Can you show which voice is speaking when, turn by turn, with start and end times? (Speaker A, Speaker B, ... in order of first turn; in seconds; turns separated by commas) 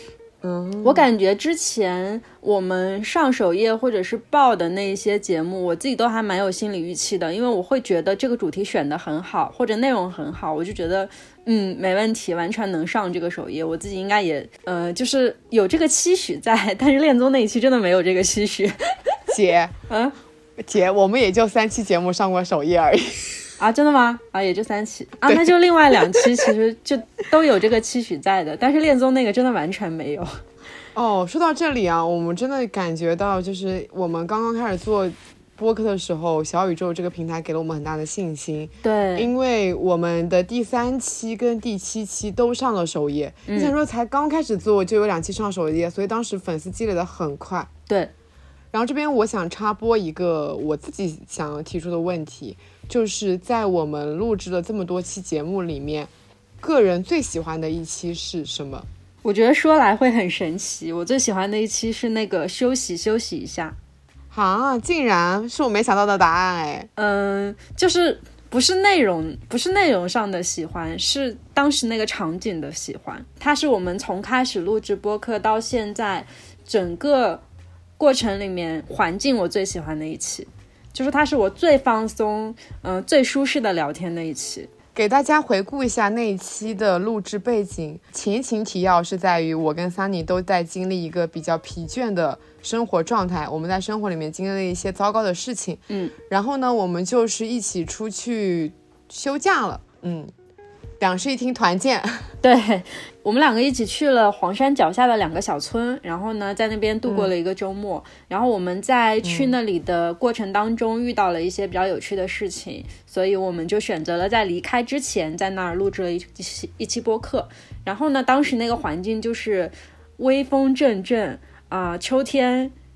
Speaker A: 0.4-1.1, Speaker B: 0.8-18.9, Speaker A: 19.3-19.7, Speaker B: 19.9-20.1, Speaker A: 20.6-23.5, Speaker B: 23.6-30.4, Speaker A: 25.3-26.5, Speaker A: 30.9-47.7, Speaker B: 38.8-39.3, Speaker B: 43.5-43.7, Speaker A: 48.7-56.1, Speaker A: 56.6-58.9, Speaker B: 59.2-63.7, Speaker A: 64.3-66.9, Speaker B: 67.0-77.4, Speaker B: 78.0-84.7, Speaker A: 84.9-100.3, Speaker B: 95.9-96.1, Speaker A: 101.0-102.3, Speaker B: 102.4-122.7, Speaker A: 107.0-107.3, Speaker A: 109.2-109.5